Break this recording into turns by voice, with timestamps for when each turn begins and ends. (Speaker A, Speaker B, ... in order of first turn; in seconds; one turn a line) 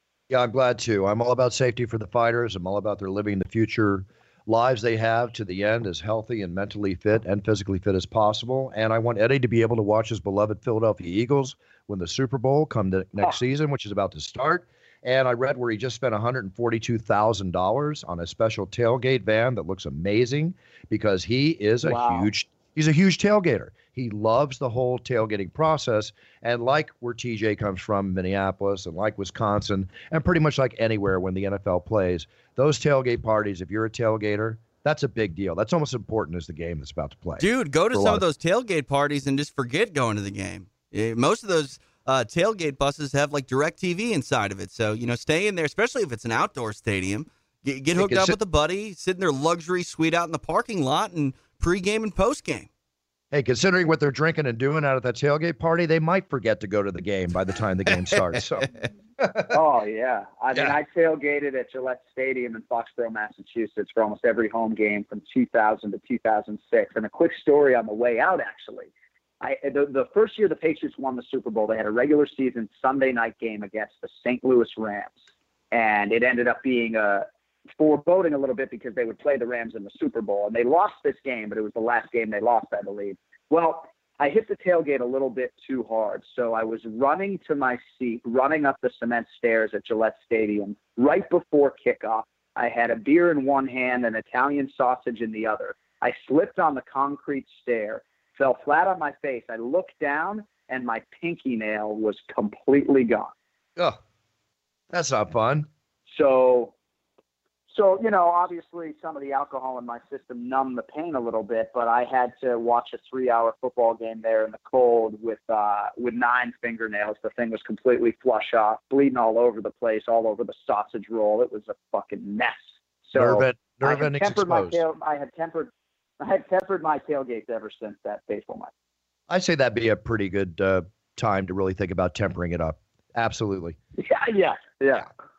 Speaker A: 0.3-38.2
Speaker B: 21.8-22.3
Speaker C: 37.4-52.7
Speaker A: 48.0-48.3
Speaker A: 53.3-59.6
Speaker C: 57.9-58.4
Speaker B: 59.5-68.9
Speaker B: 69.4-75.2
Speaker B: 75.7-77.2
Speaker B: 77.8-103.3
Speaker A: 104.9-105.7
Speaker B: 106.1-106.7
Speaker B: 107.7-128.7
Speaker A: 123.1-124.8
Speaker A: 129.3-133.8
Speaker B: 134.0-135.1